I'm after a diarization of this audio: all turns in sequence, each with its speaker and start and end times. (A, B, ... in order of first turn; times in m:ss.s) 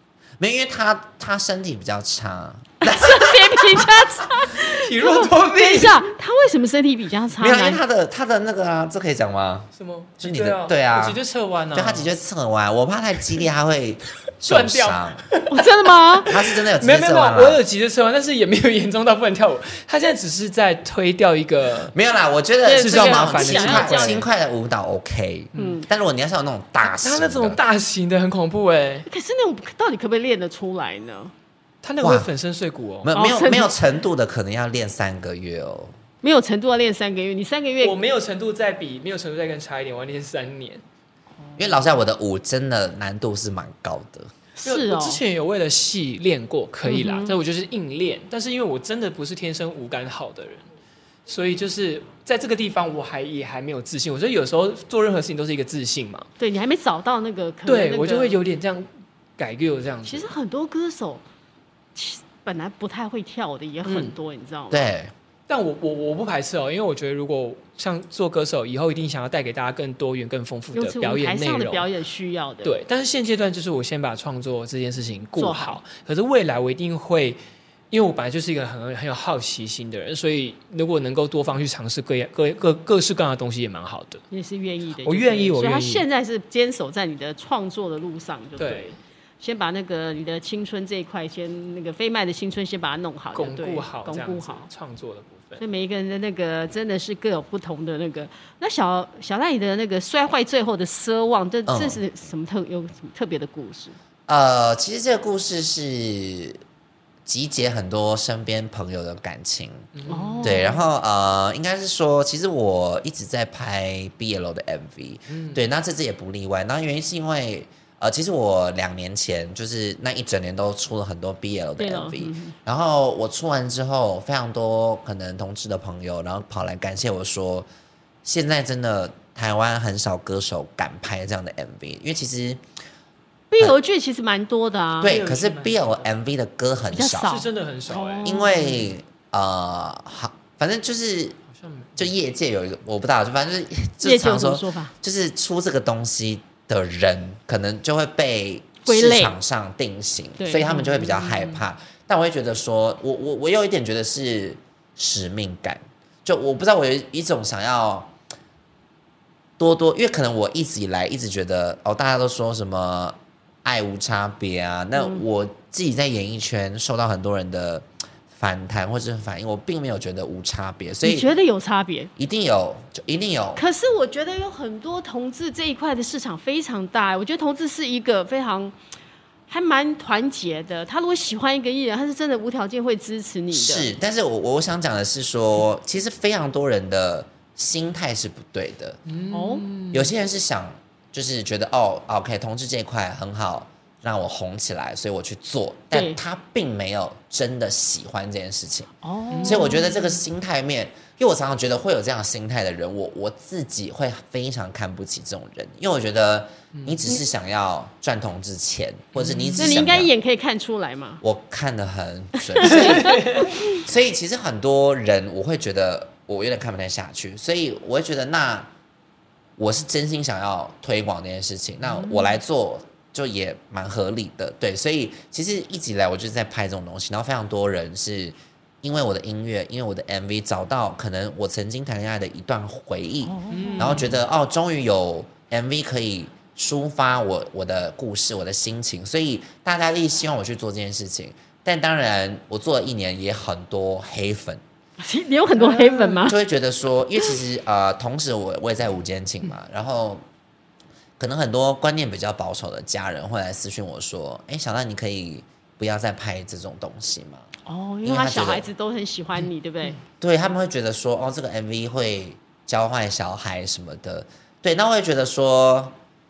0:00.4-0:04.0 A
0:02.8-0:07.8 B
0:04.6-0:06.0 C
0:07.4-0:11.2 A
0:09.7-0:12.1 C
0:11.7-0:15.2 A
0:14.4-0:21.9 C
0:15.5-0:16.3 B
0:16.2-0:17.6 A
0:21.9-0:27.6 A
0:22.6-0:24.3 B
0:22.7-0:24.2 C
0:25.5-0:25.8 C
0:25.5-0:25.9 B
0:26.8-0:29.1 C
0:29.1-0:31.3 B
0:31.8-0:33.1 C
0:32.0-0:32.3 A
0:33.0-0:35.9 A
0:33.1-0:33.7 B
0:36.2-0:38.0 B
0:37.8-0:40.8 C
0:41.5-0:41.8 B
0:41.6-0:44.3 A
0:44.6-0:45.2 B
0:44.6-0:50.7 C
0:46.8-0:47.4 B
0:51.3-0:56.3 C
0:56.4-0:58.4 B
0:57.6-0:58.9 C
0:59.4-1:00.3 C
1:00.0-1:01.2 B
1:01.9-1:04.9 B
1:03.8-1:04.1 C
1:04.7-1:05.1 A
1:05.5-1:11.9 C
1:10.7-1:12.8 B
1:12.6-1:17.4 C
1:15.4-1:15.8 B
1:17.9-1:24.2 C
1:24.3-1:34.7 B
1:25.0-1:26.0 C
1:28.6-1:28.9 C
1:33.3-1:35.6 C
1:35.6-1:44.0 B
1:41.7-1:42.0 A
1:44.3-1:46.6 A
1:47.2-1:49.9 A
1:49.9-1:50.6 C
1:50.0-1:50.8 B
1:50.4-2:07.7 A
1:55.3-1:55.6 C
2:01.8-2:02.5 B
2:08.2-2:12.6 A
2:13.5-2:15.2 B
2:15.0-2:16.1 C
2:15.0-2:17.3 A
2:16.9-2:18.9 B
2:17.2-2:18.4 C
2:18.2-2:21.4 A
2:21.6-2:22.1 C
2:22.0-2:38.1 A
2:24.0-2:24.9 B
2:28.8-2:29.4 B
2:30.4-2:31.3 B
2:31.1-2:31.6 C
2:39.6-2:51.3 A
2:45.0-2:45.2 B
2:51.0-2:52.1 B
2:52.2-2:53.6 A
2:53.5-2:58.8 B
2:59.5-3:03.9 B
3:03.5-3:09.0 A
3:09.1-3:10.1 C
3:09.3-3:09.7 B
3:09.9-3:18.9 A
3:15.9-3:16.2 B
3:19.0-3:19.9 B
3:19.3-3:19.8 C
3:19.4-3:30.1 A
3:29.1-3:29.8 C
3:29.6-3:31.2 B
3:31.2-3:38.7 A
3:32.5-3:33.7 B
3:32.6-3:33.5 C
3:39.6-4:04.6 A
3:53.2-3:54.0 B
3:53.5-3:54.2 C
4:05.0-4:06.4 B
4:05.6-4:06.2 C
4:06.2-4:10.2 A
4:11.2-4:17.5 A
4:17.6-4:20.0 B
4:18.0-4:18.7 A
4:20.2-4:25.9 A